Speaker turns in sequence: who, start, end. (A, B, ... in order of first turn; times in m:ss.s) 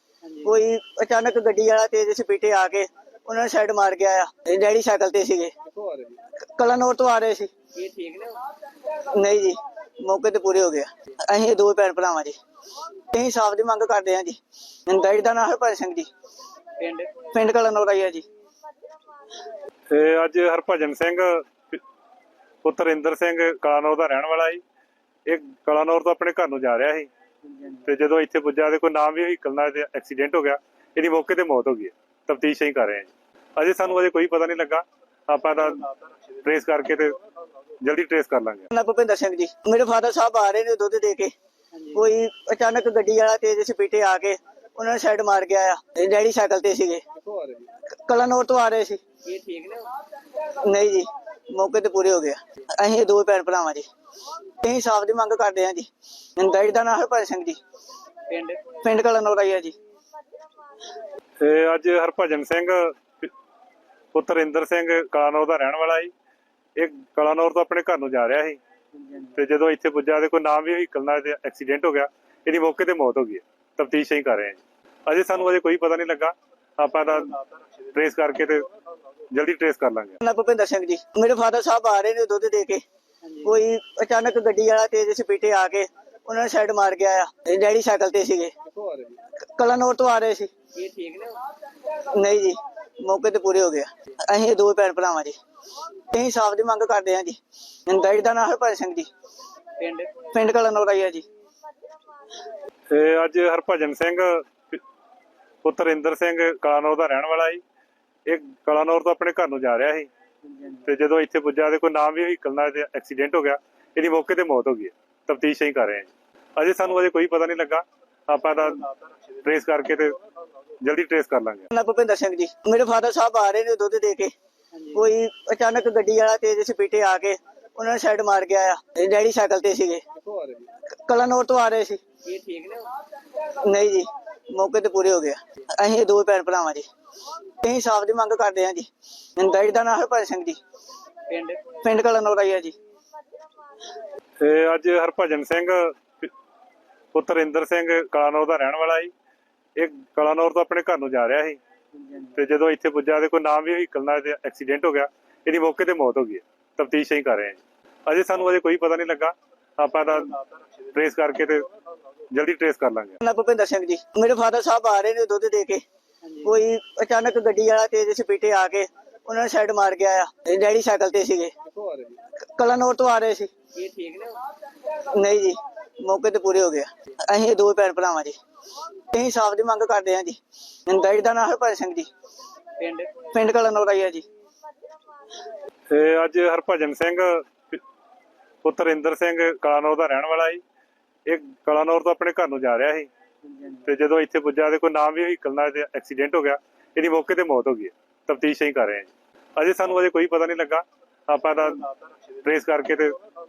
0:00.4-0:05.5 A
0:05.8-0:06.2 B
0:06.4-0:07.5 A
0:07.8-0:08.4 B
0:09.0-0:12.4 A
0:13.1-0:16.1 A
0:16.8-0:17.1 B
0:17.3-0:18.3 A
0:19.9-0:21.8 C
0:22.6-0:24.6 C
0:25.2-0:27.1 C
0:27.8-0:35.9 C
0:36.4-0:37.2 C
0:37.8-0:38.7 C
0:38.7-0:41.3 A
0:41.9-0:47.0 A
0:47.3-0:47.6 B
0:47.9-0:49.0 A
0:49.2-0:49.9 B
0:50.4-0:53.9 A
0:54.5-0:57.6 A
0:58.3-0:58.7 B
0:58.8-0:59.8 A
1:01.4-1:03.3 C
1:04.1-1:06.1 C
1:06.8-1:08.6 C
1:09.3-1:17.4 C
1:17.9-1:18.7 C
1:19.3-1:20.2 C
1:20.2-1:22.8 A
1:23.4-1:28.5 A
1:28.8-1:29.1 B
1:29.5-1:30.5 A
1:30.8-1:31.4 B
1:32.0-1:35.4 A
1:36.1-1:39.1 A
1:39.8-1:40.1 B
1:40.3-1:41.3 A
1:42.9-1:44.8 C
1:45.6-1:47.6 C
1:48.2-1:50.1 C
1:50.8-1:58.9 C
1:59.4-2:00.2 C
2:00.8-2:01.6 C
2:01.7-2:04.3 A
2:04.9-2:10.0 A
2:10.2-2:10.6 B
2:11.0-2:12.0 A
2:12.2-2:12.9 B
2:13.4-2:16.9 A
2:17.6-2:20.6 A
2:21.3-2:21.6 B
2:21.8-2:22.8 A
2:24.4-2:26.3 C
2:27.1-2:29.1 C
2:29.8-2:31.6 C
2:32.3-2:40.4 C
2:40.9-2:41.7 C
2:42.3-2:43.2 C
2:43.2-2:45.8 A
2:46.4-2:51.5 A
2:51.8-2:52.2 B
2:52.4-2:53.5 A
2:53.8-2:54.4 B
2:54.9-2:58.4 A
2:59.1-3:02.1 A
3:02.8-3:03.1 B
3:03.3-3:04.3 A
3:05.9-3:07.8 C
3:08.6-3:10.6 C
3:11.2-3:13.1 C
3:13.8-3:21.9 C
3:22.4-3:23.2 C